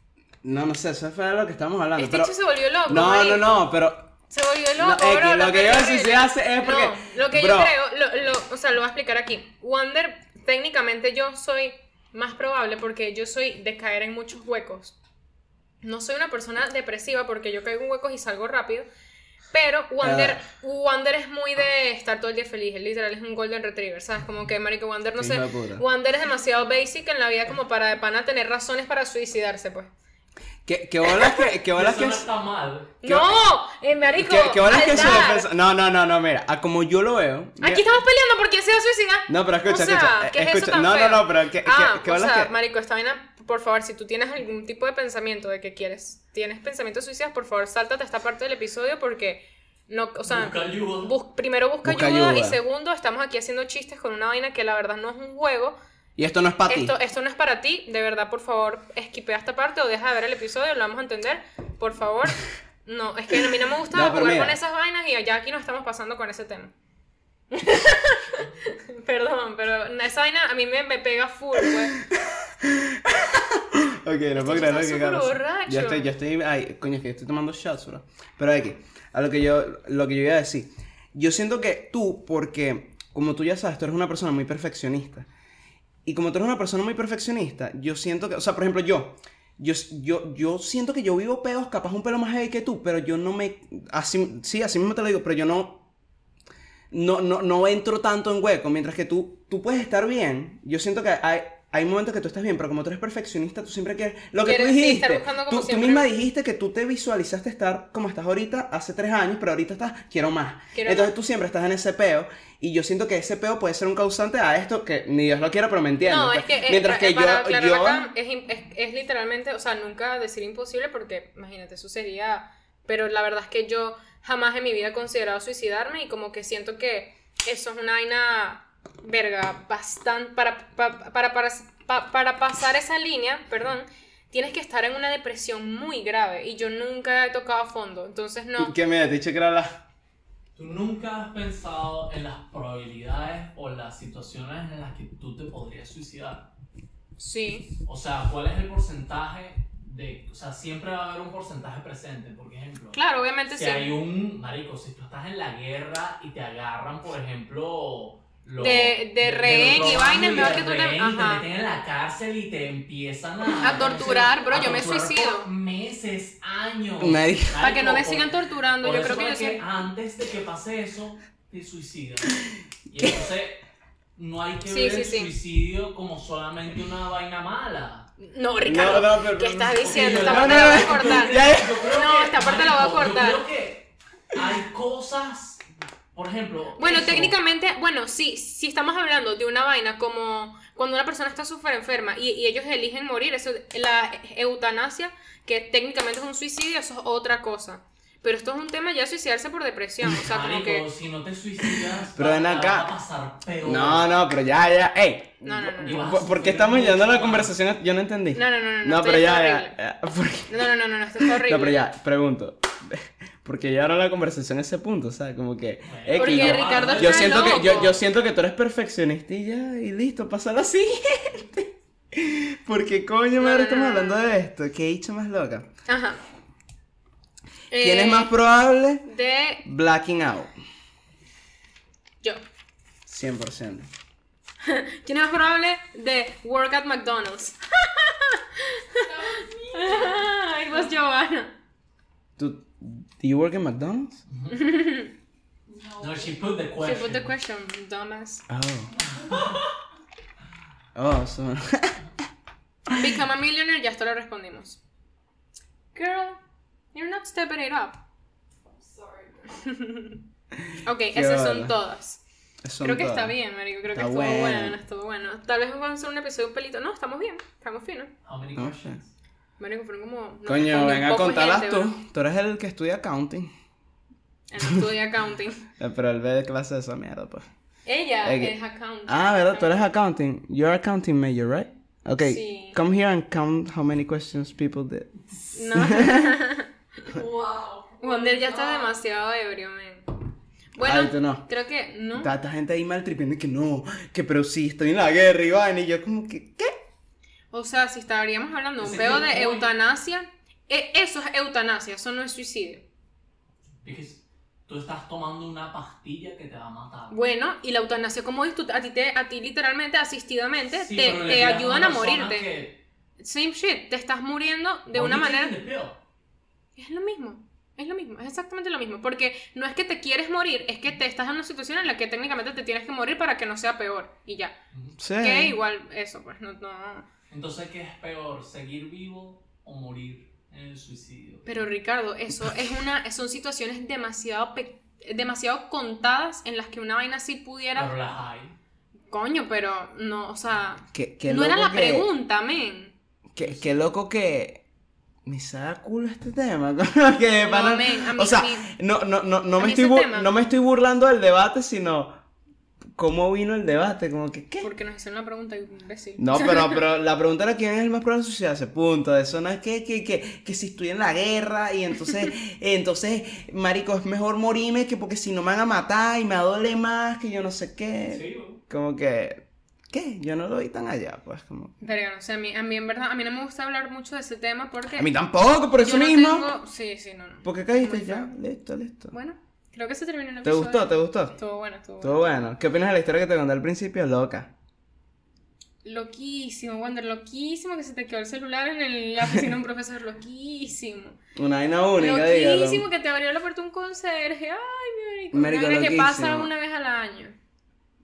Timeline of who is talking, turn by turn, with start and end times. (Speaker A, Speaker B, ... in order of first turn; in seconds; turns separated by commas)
Speaker A: 0.4-2.3, Speaker B: 2.0-3.6, Speaker A: 2.9-4.1, Speaker B: 4.3-14.9, Speaker A: 4.8-7.7, Speaker B: 15.8-18.9, Speaker B: 19.5-29.9, Speaker A: 20.0-20.4, Speaker A: 25.2-25.8, Speaker A: 30.7-32.3, Speaker B: 31.1-31.4, Speaker C: 31.7-33.0, Speaker B: 33.0-35.5, Speaker A: 33.0-33.4, Speaker A: 34.2-37.9, Speaker B: 37.6-55.8, Speaker A: 39.3-42.5, Speaker C: 50.3-51.1, Speaker A: 51.8-52.6, Speaker A: 56.2-56.9, Speaker B: 56.7-66.7, Speaker A: 63.9-64.6, Speaker B: 67.5-72.0, Speaker A: 72.1-85.3, Speaker B: 74.4-76.1, Speaker A: 86.1-95.8, Speaker A: 96.9-118.1, Speaker B: 104.4-106.1, Speaker B: 110.7-111.1, Speaker B: 116.1-138.7, Speaker A: 138.6-139.8, Speaker C: 140.6-146.5, Speaker B: 147.2-147.7, Speaker C: 147.8-153.0, Speaker B: 152.9-153.9, Speaker C: 153.5-173.6, Speaker B: 158.6-161.4, Speaker B: 163.6-165.5, Speaker A: 167.0-167.6, Speaker B: 167.6-169.6, Speaker C: 174.2-178.1, Speaker B: 174.7-175.3, Speaker B: 178.2-183.4, Speaker A: 178.7-181.8, Speaker C: 179.7-185.6, Speaker C: 186.1-187.4, Speaker B: 186.8-200.9, Speaker C: 200.0-204.2, Speaker A: 202.1-202.9, Speaker A: 203.6-210.7, Speaker B: 205.4-206.0, Speaker C: 205.8-207.6, Speaker B: 208.3-209.8, Speaker B: 210.5-211.8, Speaker A: 211.2-225.7, Speaker C: 215.8-217.8, Speaker B: 216.2-218.0, Speaker B: 223.4-224.3, Speaker B: 225.9-226.2, Speaker B: 227.7-228.3, Speaker A: 227.8-229.1, Speaker B: 229.1-229.7, Speaker A: 229.6-230.5, Speaker A: 233.1-233.9, Speaker B: 234.6-241.5, Speaker D: 239.0-240.8, Speaker A: 242.4-244.2, Speaker C: 244.3-244.6, Speaker B: 244.5-245.1, Speaker D: 245.7-246.4, Speaker C: 246.0-247.3, Speaker B: 246.8-248.5, Speaker A: 248.5-248.9, Speaker C: 249.0-249.7, Speaker A: 250.9-252.0, Speaker B: 252.9-254.8, Speaker B: 255.9-256.4, Speaker B: 256.9-258.0, Speaker D: 258.7-259.7, Speaker B: 259.6-260.2, Speaker A: 260.6-261.7, Speaker B: 260.8-262.2, Speaker A: 262.6-263.3, Speaker B: 262.8-268.1, Speaker A: 263.9-264.8, Speaker C: 268.2-269.1, Speaker A: 268.6-269.0, Speaker B: 269.6-272.0, Speaker A: 270.5-273.5, Speaker B: 274.5-275.6, Speaker A: 275.8-277.5, Speaker B: 277.9-279.9, Speaker A: 278.2-278.5, Speaker A: 279.1-285.1, Speaker B: 282.2-282.8, Speaker B: 285.5-286.7, Speaker A: 285.7-286.4, Speaker D: 287.0-289.0, Speaker B: 288.0-290.1, Speaker B: 290.8-292.3, Speaker A: 290.8-291.5, Speaker A: 292.2-296.8, Speaker B: 297.5-302.9, Speaker C: 298.8-299.7, Speaker C: 303.8-307.2, Speaker B: 307.1-312.5, Speaker C: 310.7-312.8, Speaker B: 313.2-315.5, Speaker C: 314.9-316.0, Speaker B: 316.8-324.6, Speaker A: 325.0-325.6, Speaker B: 325.2-327.1, Speaker C: 327.3-331.5, Speaker B: 331.4-337.9, Speaker C: 337.7-338.6, Speaker B: 339.1-342.9, Speaker A: 340.9-342.1, Speaker A: 343.3-344.6, Speaker A: 345.3-352.1, Speaker B: 347.4-348.7, Speaker B: 349.6-350.4, Speaker A: 353.0-354.7, Speaker B: 354.6-356.8, Speaker A: 356.2-371.7, Speaker C: 368.1-368.6, Speaker B: 371.8-375.1, Speaker A: 375.0-376.5, Speaker B: 375.8-378.4, Speaker A: 377.4-379.1, Speaker B: 379.1-382.2, Speaker A: 380.4-381.4, Speaker A: 382.0-384.5, Speaker B: 385.8-391.2, Speaker A: 391.4-392.9, Speaker B: 392.0-397.4, Speaker A: 395.3-396.5